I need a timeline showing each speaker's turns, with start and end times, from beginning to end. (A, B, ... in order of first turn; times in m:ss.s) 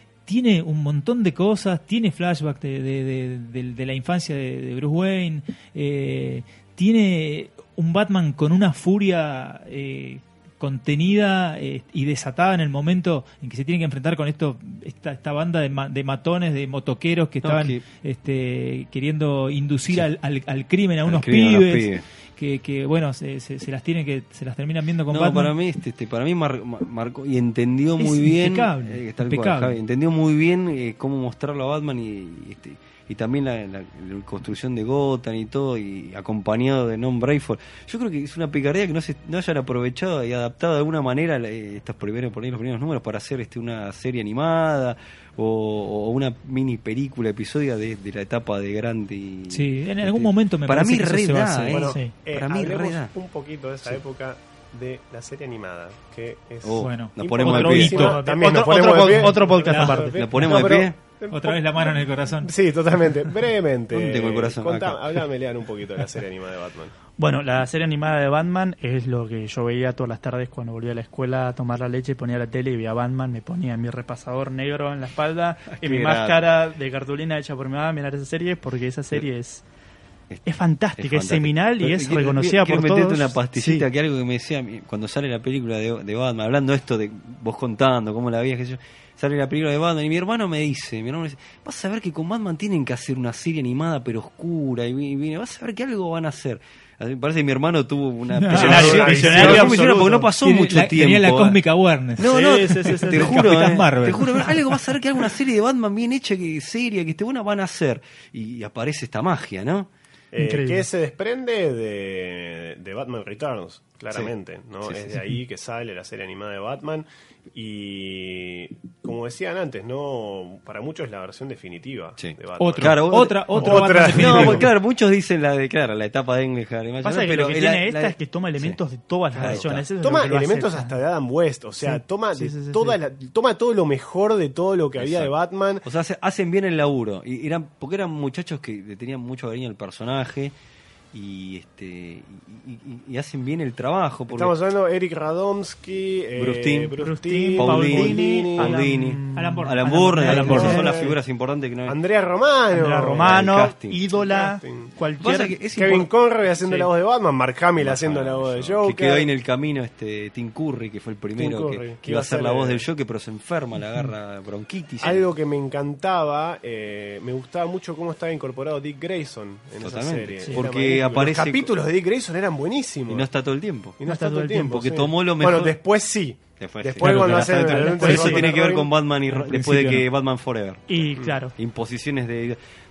0:00.3-0:25.5 A
0:17.4-0:17.8 B
0:21.0-0:22.0 B
0:25.1-0:53.1 B
0:28.0-0:29.8 A
0:49.5-0:51.9 A
0:51.6-1:06.9 C
0:56.6-0:58.2 B
0:56.8-1:00.8 A
0:57.6-1:00.2 D
1:00.1-1:01.0 B
1:01.3-1:02.5 A
1:03.9-1:05.2 B
1:07.2-1:19.6 D
1:15.7-1:16.4 B
1:20.4-1:23.8 D
1:21.0-1:41.6 B
1:38.4-1:39.6 A
1:38.4-1:40.3 D
1:38.5-1:39.8 C
1:40.4-1:44.8 A
1:42.2-1:49.9 B
1:42.2-1:43.5 D
1:50.3-2:04.7 C
1:50.4-1:50.9 D
1:54.8-1:55.2 B
2:02.2-2:08.8 B
2:02.6-2:04.7 A
2:03.6-2:03.8 D
2:07.0-2:11.0 D
2:09.4-2:09.8 B
2:09.6-2:15.9 C
2:11.8-2:13.0 D
2:15.0-2:20.5 B
2:21.1-2:24.5 B
2:24.3-2:28.8 C
2:26.4-2:27.0 B
2:27.0-2:31.0 D
2:27.6-2:32.0 B
2:29.4-2:30.8 A
2:30.3-2:31.2 C
2:31.9-2:33.4 C
2:32.7-2:35.6 D
2:33.2-2:34.0 B
2:34.2-2:34.9 C
2:35.2-2:36.1 B
2:35.7-2:39.3 C
2:36.6-2:36.9 D
2:37.8-2:45.2 B
2:41.4-2:42.8 C
2:45.0-2:53.3 C
2:49.8-2:51.7 B
2:53.1-2:54.0 B
2:54.0-2:58.9 C
2:54.0-2:54.9 D
2:54.7-2:55.8 B
2:56.6-3:02.6 B
2:57.0-2:58.5 A
2:57.0-2:58.5 D
2:59.3-3:00.1 A
3:00.9-3:01.6 D